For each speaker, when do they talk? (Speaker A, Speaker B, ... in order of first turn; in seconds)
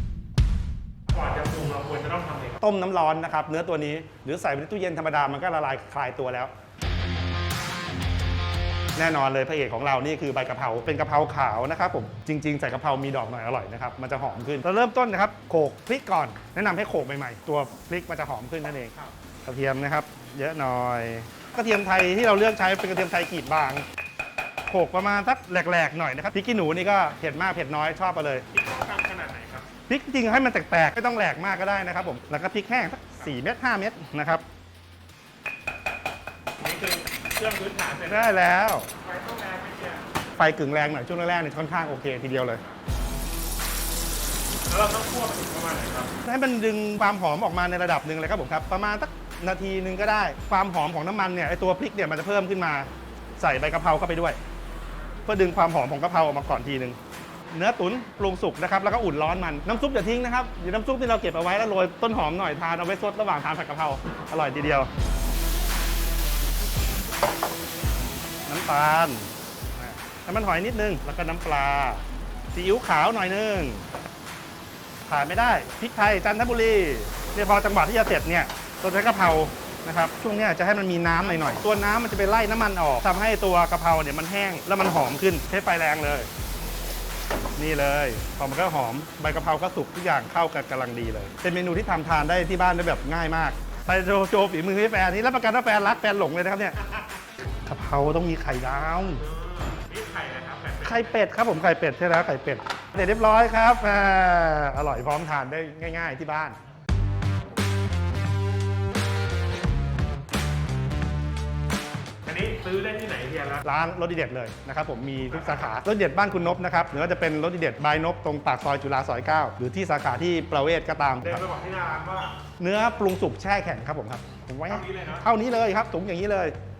Speaker A: 1.1-2.6, 28.5-29.7, 36.6-38.4, 39.0-40.0, 44.7-46.1, 99.2-101.2, 112.2-113.6, 115.2-115.8, 121.2-122.4, 124.7-125.2
Speaker B: 2.6-6.5, 8.9-23.8, 24.7-28.5, 29.9-34.4, 38.0-38.9, 40.4-42.6, 46.2-52.9, 53.4-54.4, 55.2-57.0, 57.5-64.9, 68.5-73.8, 75.1-86.3, 87.6-96.9, 97.7-99.2, 100.8-106.6, 113.6-121.4, 122.6-126.5